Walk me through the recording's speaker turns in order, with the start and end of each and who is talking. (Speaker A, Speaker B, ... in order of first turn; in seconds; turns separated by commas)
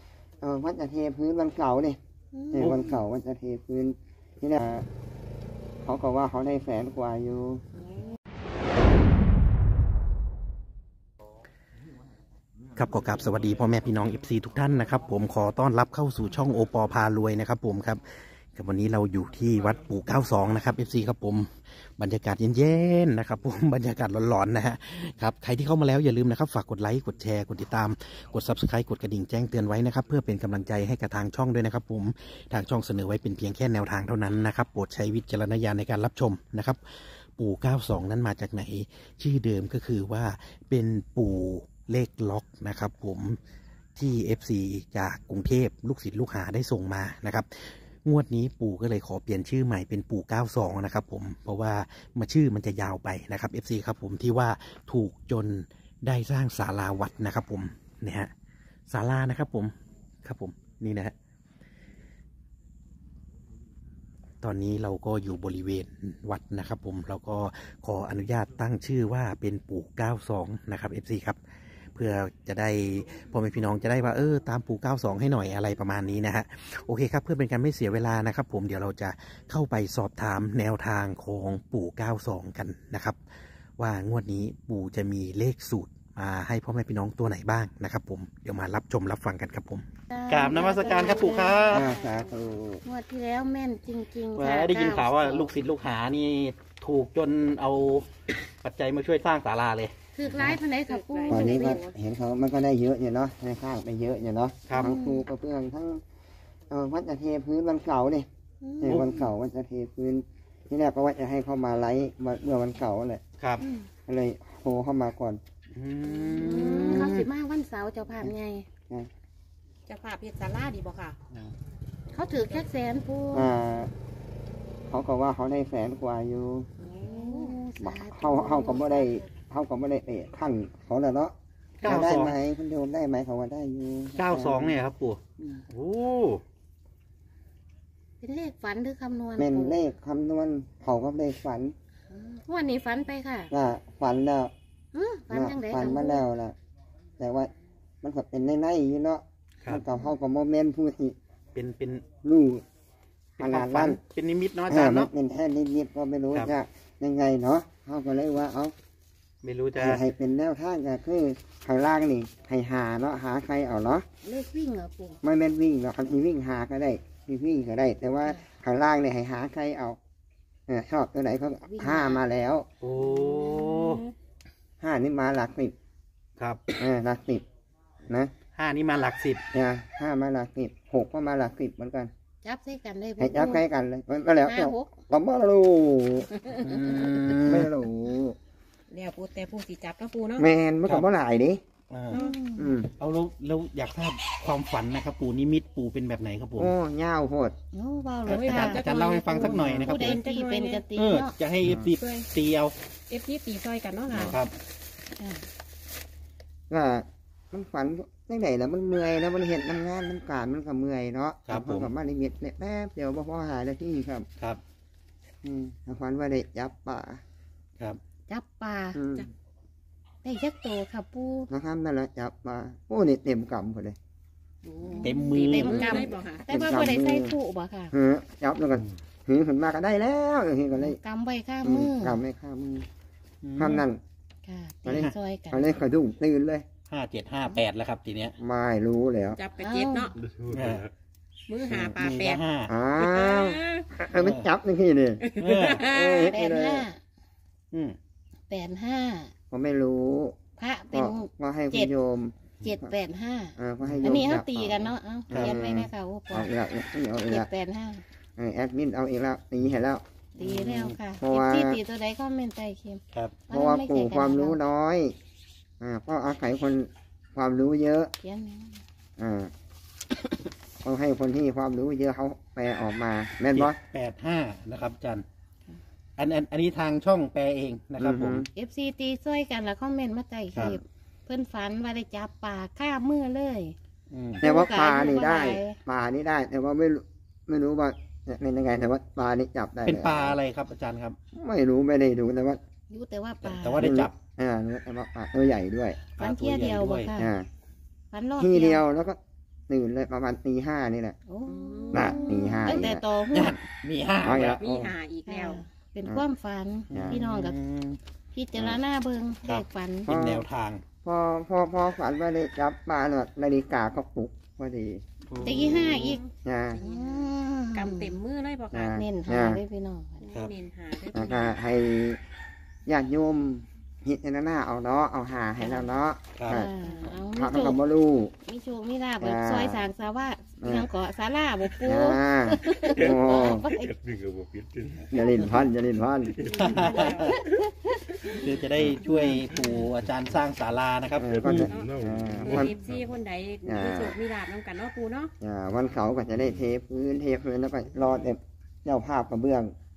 Speaker A: 0.4-2.0, Speaker B: 2.3-2.8, Speaker A: 2.5-4.8, Speaker C: 2.6-2.9, Speaker A: 5.8-7.6, Speaker C: 12.8-18.0, Speaker C: 18.5-43.4, Speaker C: 44.0-58.3, Speaker C: 58.9-59.7, Speaker C: 60.2-61.1, Speaker C: 64.4-71.4, Speaker C: 71.9-83.2, Speaker C: 83.8-91.9, Speaker B: 90.1-91.9, Speaker D: 90.5-92.3, Speaker A: 91.7-92.8, Speaker B: 92.8-95.5, Speaker C: 94.3-98.1, Speaker C: 98.6-100.6, Speaker B: 100.1-101.8, Speaker D: 100.8-101.9, Speaker A: 101.3-106.0, Speaker C: 104.7-104.9, Speaker B: 104.8-105.2, Speaker A: 106.7-108.3, Speaker B: 108.6-109.0, Speaker A: 108.8-113.2, Speaker C: 108.8-109.2, Speaker C: 113.4-113.6, Speaker B: 113.6-113.9, Speaker A: 114.1-115.4, Speaker C: 115.7-117.3, Speaker B: 116.2-118.7, Speaker D: 116.4-117.0, Speaker D: 119.9-121.2, Speaker B: 122.1-123.5, Speaker A: 123.3-123.9, Speaker A: 124.9-126.7, Speaker D: 126.8-127.6, Speaker B: 127.0-129.2, Speaker A: 127.8-134.8, Speaker C: 131.8-132.4, Speaker C: 134.2-136.4, Speaker B: 138.2-139.8, Speaker A: 139.4-141.7, Speaker B: 142.1-143.5, Speaker A: 143.5-144.5, Speaker B: 144.9-146.2, Speaker A: 145.3-146.6, Speaker A: 147.2-147.5, Speaker A: 148.0-151.2, Speaker C: 151.5-152.0, Speaker A: 152.2-152.6, Speaker C: 153.4-155.1, Speaker A: 153.4-154.0, Speaker A: 154.7-158.7, Speaker C: 159.4-160.0, Speaker A: 159.7-164.1, Speaker B: 164.2-165.2, Speaker A: 165.2-170.0, Speaker A: 170.7-172.7, Speaker B: 171.7-172.2, Speaker C: 172.8-174.0, Speaker D: 173.0-174.1, Speaker A: 174.8-175.7, Speaker C: 176.4-176.7, Speaker A: 176.8-177.4, Speaker C: 178.5-179.4, Speaker A: 179.5-182.1, Speaker B: 182.4-183.6, Speaker A: 183.2-186.3, Speaker B: 184.4-184.9, Speaker B: 186.5-186.9, Speaker C: 186.5-187.7, Speaker A: 187.3-188.3, Speaker D: 188.9-190.5, Speaker A: 190.4-191.6, Speaker C: 191.9-192.2, Speaker D: 192.1-192.4, Speaker B: 192.1-192.7, Speaker A: 192.6-192.9, Speaker C: 193.0-196.7, Speaker A: 196.6-197.6, Speaker B: 197.7-201.3, Speaker C: 198.2-200.2, Speaker D: 198.2-200.8, Speaker A: 199.6-199.9, Speaker C: 200.9-202.7, Speaker A: 201.6-201.9, Speaker D: 202.0-202.3, Speaker D: 203.1-204.4, Speaker C: 204.1-204.5, Speaker B: 205.2-205.5, Speaker A: 206.7-214.3, Speaker C: 211.5-211.9, Speaker A: 215.4-217.2, Speaker B: 218.3-219.0, Speaker A: 218.9-219.3, Speaker B: 220.2-221.5, Speaker A: 221.5-224.0, Speaker D: 224.6-226.4, Speaker B: 224.8-227.9, Speaker C: 225.0-226.1, Speaker A: 226.5-227.3, Speaker A: 227.9-231.0, Speaker B: 230.8-232.2, Speaker A: 231.6-232.8, Speaker C: 233.4-233.9, Speaker A: 233.6-234.0, Speaker B: 234.4-235.7, Speaker A: 234.8-236.7, Speaker C: 236.9-238.3, Speaker A: 238.4-239.4, Speaker D: 239.3-240.2, Speaker B: 239.6-240.1, Speaker E: 240.2-240.7, Speaker C: 240.5-240.9, Speaker D: 241.5-242.4, Speaker C: 241.7-242.7, Speaker A: 242.7-245.3, Speaker D: 243.0-243.9, Speaker C: 244.1-244.5, Speaker D: 245.2-246.3, Speaker C: 245.4-245.8, Speaker A: 245.8-246.9, Speaker B: 246.2-247.0, Speaker C: 247.7-248.0, Speaker B: 248.5-249.3, Speaker A: 249.5-250.4, Speaker B: 250.6-251.9, Speaker A: 250.9-252.9, Speaker B: 252.6-256.5, Speaker A: 253.6-257.5, Speaker C: 253.8-254.3, Speaker B: 257.2-258.0, Speaker A: 258.4-260.0, Speaker B: 260.4-264.6, Speaker C: 260.4-261.0, Speaker A: 261.2-261.8, Speaker A: 263.5-265.1, Speaker A: 265.8-268.1, Speaker B: 268.2-268.8, Speaker A: 269.2-269.5, Speaker A: 270.8-273.8, Speaker C: 273.5-275.2, Speaker C: 276.2-278.5, Speaker A: 278.0-278.5, Speaker B: 278.5-283.7, Speaker C: 284.1-284.4, Speaker A: 284.4-290.4, Speaker B: 284.4-285.8, Speaker C: 289.9-291.2, Speaker A: 291.3-292.6, Speaker B: 292.9-293.9, Speaker C: 293.4-294.1, Speaker A: 293.8-296.0, Speaker B: 296.1-297.3, Speaker C: 296.2-297.2, Speaker A: 297.2-297.5, Speaker B: 298.1-298.8, Speaker A: 298.4-299.2, Speaker A: 299.7-301.2, Speaker B: 301.3-303.6, Speaker D: 301.4-302.5, Speaker A: 301.9-303.0, Speaker C: 303.3-304.6, Speaker A: 304.2-304.9, Speaker D: 304.6-305.6, Speaker B: 305.2-307.6, Speaker A: 306.9-307.2, Speaker C: 306.9-308.0, Speaker B: 308.3-310.1, Speaker C: 309.4-310.8, Speaker A: 310.1-310.4, Speaker A: 311.0-315.0, Speaker C: 315.3-316.2, Speaker B: 315.4-316.2, Speaker A: 315.6-315.9, Speaker D: 315.7-319.0, Speaker A: 316.4-316.8, Speaker B: 316.8-318.1, Speaker A: 318.7-319.6, Speaker B: 318.9-320.2, Speaker D: 320.2-321.6, Speaker A: 321.1-322.2, Speaker A: 322.9-326.7, Speaker B: 325.6-325.9, Speaker C: 326.4-326.6, Speaker B: 326.5-327.8, Speaker D: 326.8-327.1, Speaker A: 327.3-328.3, Speaker B: 328.4-333.9, Speaker A: 329.2-329.9, Speaker A: 330.6-330.9, Speaker A: 331.8-333.7, Speaker E: 334.0-335.0, Speaker A: 335.1-336.4, Speaker D: 336.4-337.4, Speaker C: 336.5-337.5, Speaker C: 338.2-341.7, Speaker B: 339.1-339.8, Speaker A: 341.1-342.8, Speaker E: 341.4-342.7, Speaker D: 341.5-345.3, Speaker A: 343.6-344.1, Speaker A: 345.4-349.7